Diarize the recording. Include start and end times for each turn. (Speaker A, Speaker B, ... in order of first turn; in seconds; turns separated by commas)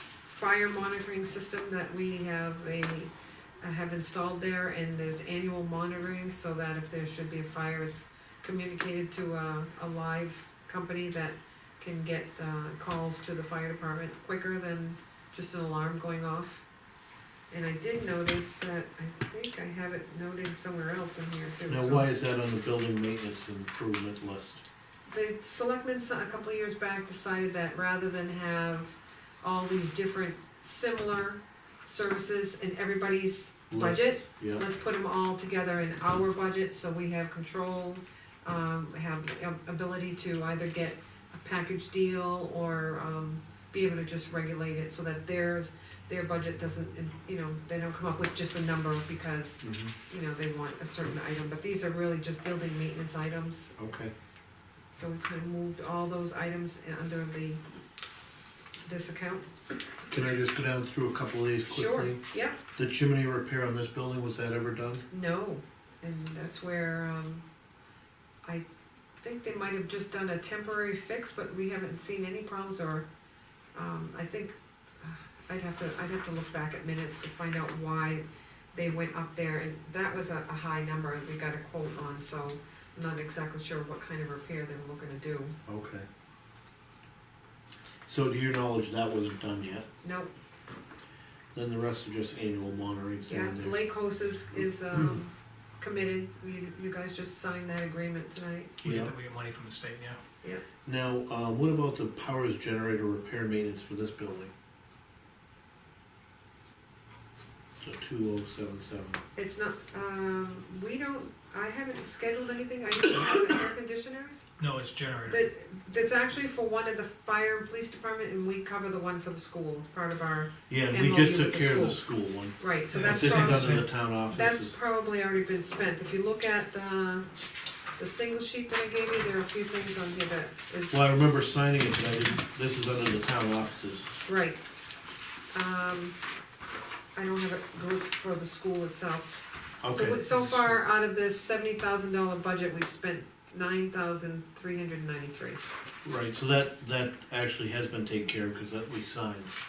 Speaker A: 0.3-16.6, Speaker A: 17.5-22.1, Speaker B: 21.7-24.6, Speaker A: 25.1-53.7, Speaker B: 33.7-34.6, Speaker B: 49.6-49.9, Speaker B: 53.8-54.1, Speaker A: 54.9-57.6, Speaker A: 58.9-59.5, Speaker B: 60.1-65.0, Speaker A: 61.7-62.6, Speaker A: 65.1-67.4, Speaker A: 69.2-73.1, Speaker A: 73.7-85.6, Speaker B: 85.7-86.1, Speaker B: 88.1-89.9, Speaker A: 90.0-90.3, Speaker B: 91.5-93.8, Speaker A: 93.3-98.7, Speaker C: 98.8-100.2, Speaker B: 98.8-99.1, Speaker B: 100.8-104.5, Speaker B: 107.8-109.2, Speaker A: 109.3-114.5, Speaker C: 114.6-115.5, Speaker A: 115.3-122.0, Speaker B: 120.7-124.8, Speaker A: 122.6-127.3, Speaker C: 122.9-123.9, Speaker A: 128.0-131.0, Speaker B: 130.9-134.1, Speaker A: 134.2-134.6, Speaker A: 135.5-136.2, Speaker A: 137.2-139.3, Speaker B: 139.8-140.8, Speaker A: 139.9-145.6, Speaker B: 146.0-149.5